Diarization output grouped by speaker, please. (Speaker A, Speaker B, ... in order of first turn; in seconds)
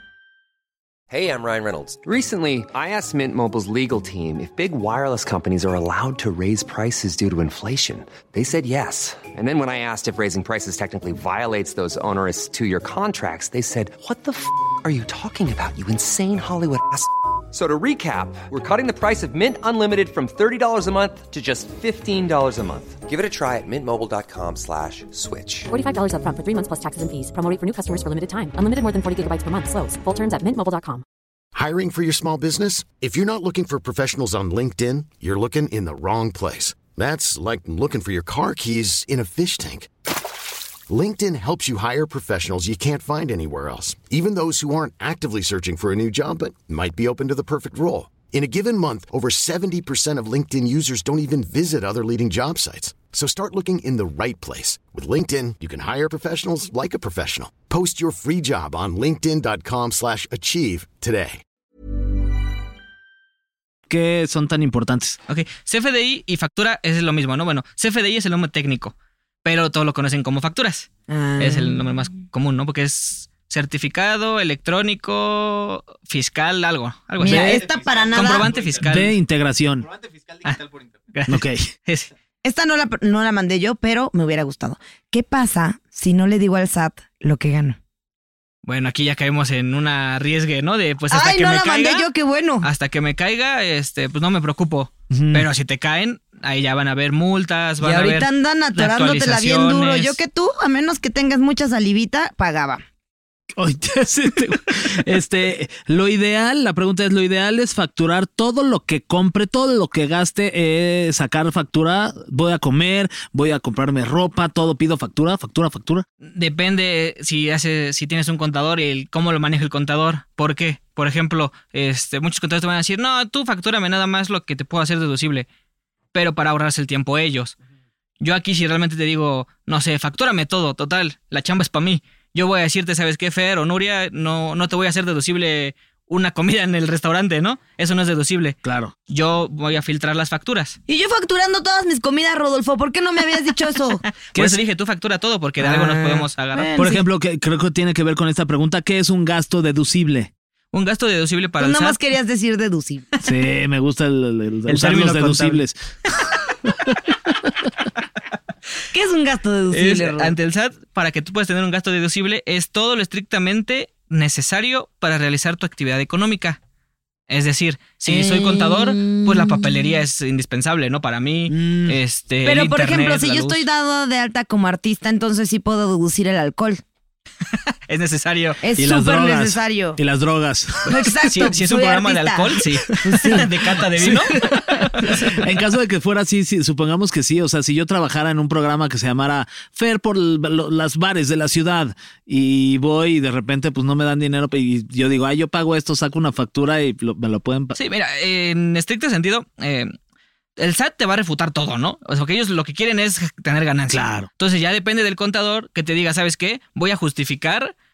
Speaker A: 1.1-25.7
Speaker B: 25.7-31.0
Speaker C: 31.6-39.9, 40.9-61.4
Speaker D: 63.9-65.2, 77.2-77.7, 78.8-79.9, 81.3-81.7, 95.1-95.5, 103.6-116.1, 138.6-138.9, 144.3-144.6, 146.8-150.3, 153.2-155.8, 156.7-156.9, 171.5-172.0, 178.8-180.9, 184.0-184.4, 185.0-197.8, 203.9-204.3
Speaker E: 65.3-79.1, 80.4-82.1, 88.7-92.1, 92.6-100.2, 116.2-125.5, 126.1-127.5, 128.2-140.8, 144.2-146.7, 150.7-152.0, 154.7-155.6, 159.7-166.6, 167.3-173.6, 177.9-178.6, 181.2-185.2, 197.8-199.9, 200.6-207.7
Speaker F: 71.1-71.8, 77.2-78.5, 82.4-87.8, 91.1-92.7, 97.8-102.8, 140.9-144.0, 145.6-147.0, 151.6-153.1, 158.9-160.3, 168.1-169.9, 172.4-176.8, 178.6-180.0, 180.8-183.5